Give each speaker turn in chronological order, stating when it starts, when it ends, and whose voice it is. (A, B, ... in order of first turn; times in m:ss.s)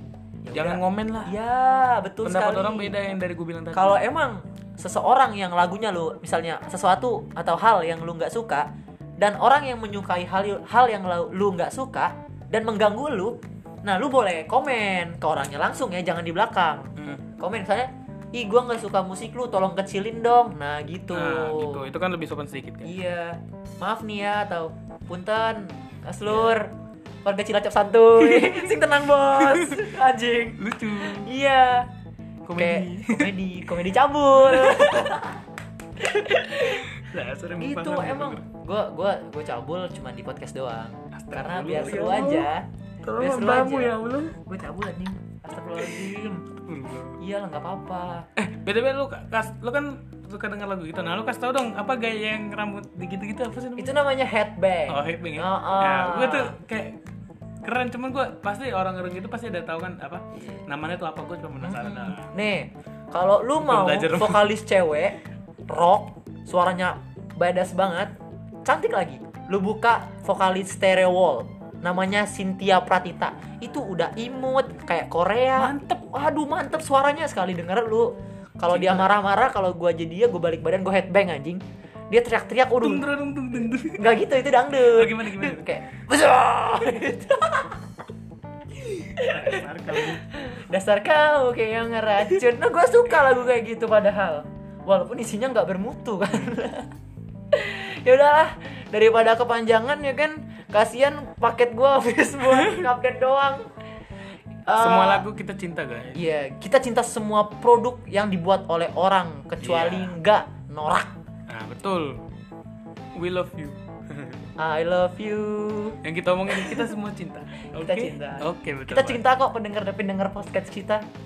0:00.4-0:02.9 A
0:00.5-0:01.3 B
0:02.2-0:04.0 B
0:03.7-0:21.9 A
0:17.0-0:17.2 B
0:21.1-0:22.9 B
0:22.8-0:31.9 A
0:26.2-0:26.5 B
0:28.2-0:28.6 B
0:29.3-0:30.0 B
0:30.6-0:31.3 B
0:32.4-0:33.3 B
0:32.5-0:35.4 A
0:34.4-0:35.1 B
0:36.0-0:36.9 A
0:36.6-0:38.4 B
0:37.6-0:46.4 A
0:41.1-0:42.5 B
0:43.0-0:44.4 B
0:45.8-0:47.2 B
0:47.2-0:48.3 A
0:48.4-0:54.0 B
0:53.8-0:56.6 A
0:54.9-0:57.0 B
0:57.6-1:02.3 B
1:01.6-1:08.1 A
1:03.6-1:04.5 B
1:08.6-1:23.0 A
1:15.6-1:15.9 B
1:18.7-1:19.1 B
1:22.8-1:24.1 B
1:23.8-1:27.8 A
1:24.8-1:25.7 B
1:29.0-1:36.9 A
1:29.1-1:30.2 B
1:37.5-1:43.7 A
1:42.5-1:42.9 B
1:44.6-1:45.2 A
1:44.8-1:46.2 B
1:46.1-1:51.1 A
1:49.6-1:50.2 B
1:51.5-1:52.2 B
1:53.1-1:54.4 B
1:54.6-1:56.0 A
1:56.0-1:59.2 B
1:56.5-1:56.9 A
1:57.7-2:01.0 A